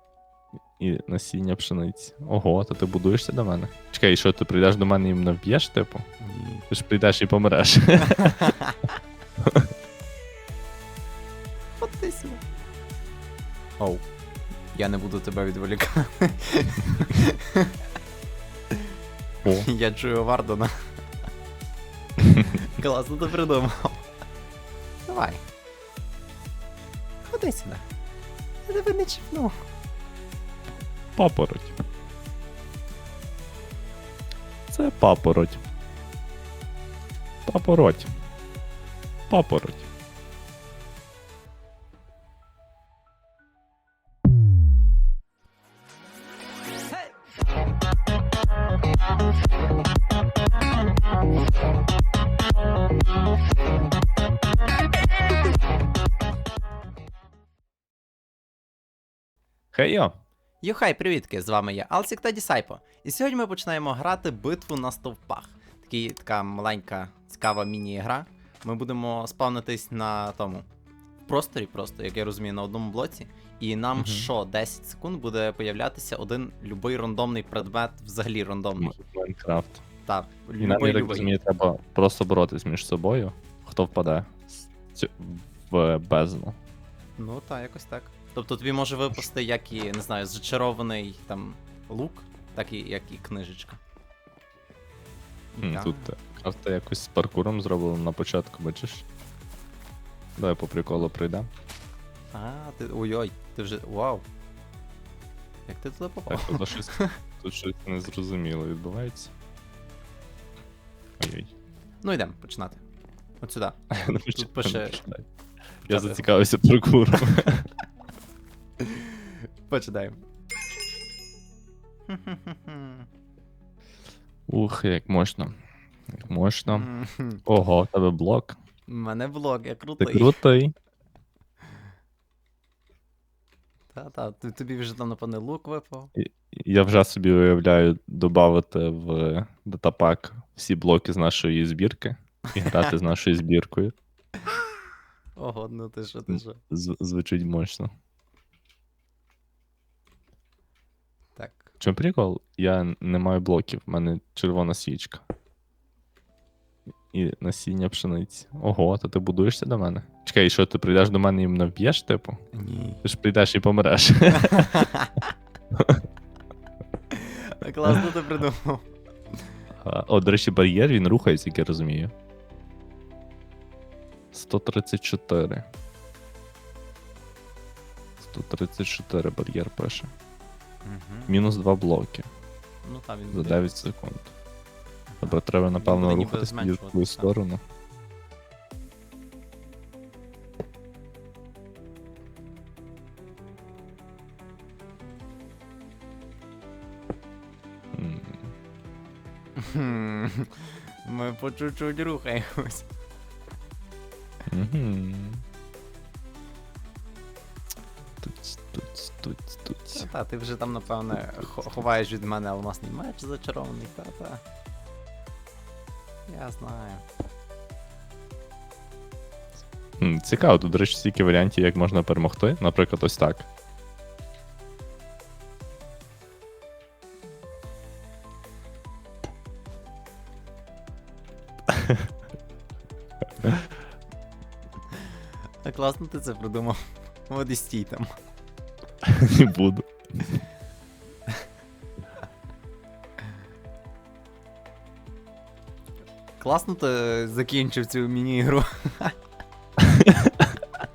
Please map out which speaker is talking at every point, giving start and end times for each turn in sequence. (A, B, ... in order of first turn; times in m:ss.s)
0:00.8-0:06.1 A
0:06.2-0:06.6 B
0:06.7-0:08.5 A
0:08.0-0:08.8 B
0:09.4-0:09.7 A
0:11.8-0:12.4 B
0:13.8-0:14.0 B
0:14.7-0:17.8 B
0:18.7-0:18.9 B
0:19.5-0:20.9 B
0:22.2-0:22.6 A
0:22.6-0:24.0 B
0:25.0-0:25.4 B
0:27.2-0:27.8 B
0:28.6-0:29.5 B
0:31.2-0:31.8 A
0:34.7-0:35.6 A
0:37.5-0:38.1 A
0:39.3-0:39.9 A
0:59.7-1:00.1 A
1:00.6-1:10.7 B
1:11.3-1:18.9 B
1:14.0-1:14.3 A
1:18.8-1:19.8 A
1:20.1-1:21.3 B
1:20.6-1:26.6 A
1:27.2-1:33.8 B
1:35.5-1:36.1 B
1:35.6-1:39.0 A
1:40.4-1:41.5 A
1:42.3-1:44.2 B
1:45.7-1:47.2 B
1:46.3-1:49.3 A
1:51.2-1:51.5 A
1:52.0-1:52.8 B
1:53.4-1:53.8 B
1:53.9-1:55.2 A
1:54.3-1:55.0 B
1:55.8-1:57.7 A
1:55.9-1:56.3 B
1:58.8-2:00.2 B
2:02.1-2:03.1 B
2:04.5-2:05.5 A
2:06.1-2:06.9 A
2:06.7-2:07.4 B
2:07.4-2:08.6 A
2:08.9-2:10.4 B
2:10.0-2:10.8 A
2:13.9-2:16.1 B
2:16.1-2:23.9 A
2:22.6-2:22.9 B
2:25.4-2:26.6 B
2:26.3-2:27.9 A
2:31.4-2:31.7 B
2:31.8-2:35.2 A
2:37.1-2:42.4 A
2:42.5-2:43.0 B
2:43.0-2:44.9 A
2:44.3-2:45.3 B
2:45.7-2:46.0 A
2:47.1-2:48.9 B
2:49.8-2:52.1 A
2:54.3-2:55.6 A
2:58.2-3:00.1 A
3:00.8-3:01.3 B
3:01.3-3:02.3 A
3:02.8-3:03.6 B
3:03.3-3:04.3 A
3:05.1-3:07.3 B
3:05.2-3:07.6 A
3:17.9-3:18.5 A
3:19.6-3:22.9 B
3:24.5-3:25.4 A
3:28.2-3:30.1 A
3:29.9-3:34.4 B
3:36.3-3:37.0 B
3:40.0-3:43.5 A
3:51.7-3:52.1 A
3:55.6-3:58.1 B
3:59.0-4:00.4 A
4:06.4-4:09.2 B
4:09.8-4:10.6 A